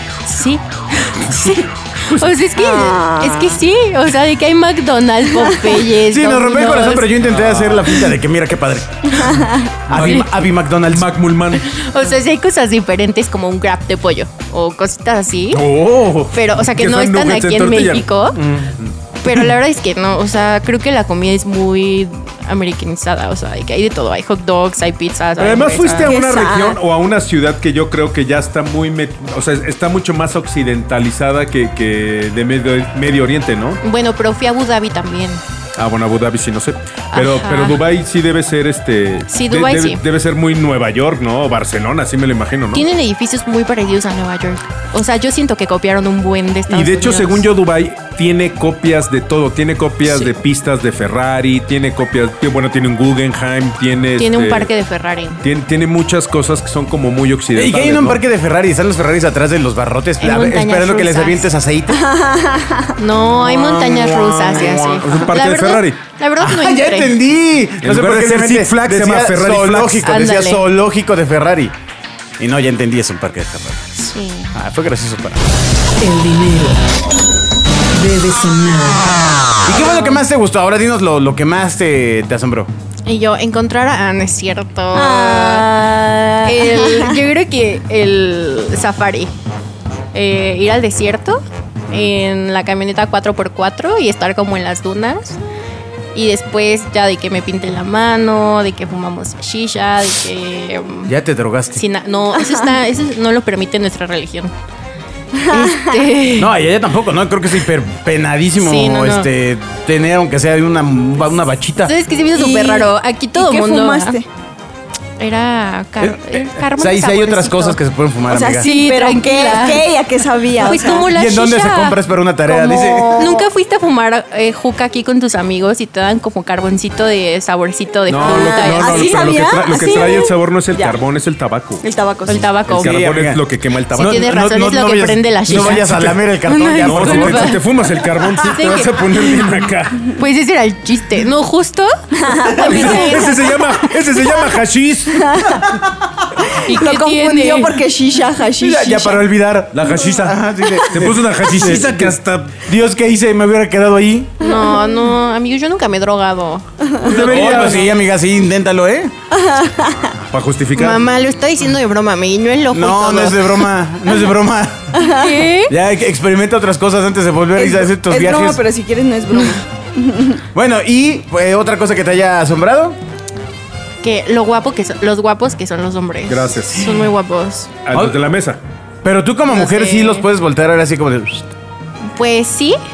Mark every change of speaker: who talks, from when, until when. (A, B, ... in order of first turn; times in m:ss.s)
0:00.2-0:07.1 A
0:02.6-0:03.6 B
0:05.5-0:05.8 B
0:06.0-0:09.2 C
0:07.2-0:07.9 D
0:09.2-0:09.7 B
0:09.9-0:11.1 C
0:09.9-0:11.7 D
0:11.6-0:15.6 A
0:15.5-0:19.5 D
0:16.3-0:18.4 A
0:19.2-0:26.2 A
0:25.4-0:33.8 D
0:26.0-0:26.8 B
0:33.8-0:35.4 A
0:35.8-0:42.9 D
0:37.1-0:37.8 A
0:39.3-0:40.0 A
0:42.7-0:47.4 A
0:46.7-0:54.7 D
0:54.2-0:55.4 A
0:55.4-0:58.2 D
0:57.5-1:02.0 C
1:00.2-1:01.5 A
1:01.9-1:03.0 B
1:03.0-1:07.2 A
1:03.3-1:05.3 C
1:05.0-1:06.0 D
1:06.4-1:11.7 C
1:07.8-1:10.1 D
1:10.0-1:10.6 A
1:12.4-1:13.9 C
1:14.0-1:14.5 A
1:14.5-1:15.4 C
1:16.0-1:16.8 E
1:18.0-1:19.6 E
1:19.6-1:22.7 C
1:23.1-1:25.9 A
1:24.9-1:27.2 B
1:26.4-1:29.3 A
1:30.1-1:35.4 A
1:36.1-1:41.1 A
1:41.1-1:41.8 C
1:41.7-1:44.5 A
1:45.3-1:46.0 B
1:45.4-1:46.5 A
1:46.4-1:52.0 C
1:48.6-1:49.3 A
1:51.8-1:54.2 A
1:52.4-1:54.2 B
1:55.2-1:57.8 A
1:56.0-1:58.7 C
1:58.3-2:01.1 B
1:58.6-2:00.0 A
2:00.6-2:02.0 A
2:01.0-2:03.3 C
2:02.5-2:03.5 B
2:03.1-2:09.2 A
2:08.1-2:11.8 D
2:08.2-2:11.0 B
2:11.8-2:12.5 B
2:12.2-2:13.0 A
2:12.7-2:14.3 D
2:12.7-2:17.6 C
2:13.9-2:17.6 A
2:15.5-2:16.2 D
2:16.8-2:20.1 D
2:18.4-2:19.1 A
2:20.0-2:23.7 A
2:22.2-2:23.4 B
2:22.5-2:25.7 D
2:25.2-2:25.6 B
2:26.4-2:29.3 B
2:26.6-2:27.8 A
2:28.6-2:34.4 C
2:29.7-2:32.6 D
2:30.7-2:31.0 B
2:34.4-2:36.6 A
2:34.4-2:35.0 B
2:36.9-2:37.6 B
2:37.0-2:38.0 D
2:37.1-2:39.1 C
2:39.3-2:40.1 B
2:40.3-2:41.0 D
2:40.8-2:43.7 A
2:42.7-2:45.0 C
2:44.9-2:45.5 B
2:45.0-2:45.7 A
2:45.7-2:48.6 C
2:47.6-2:50.4 B
2:50.5-2:53.0 C
2:54.0-2:57.7 A
2:56.3-2:57.0 D
2:57.8-2:58.6 D
2:57.9-2:58.2 C
2:59.0-3:01.5 C
2:59.5-3:00.3 A
3:02.0-3:02.8 A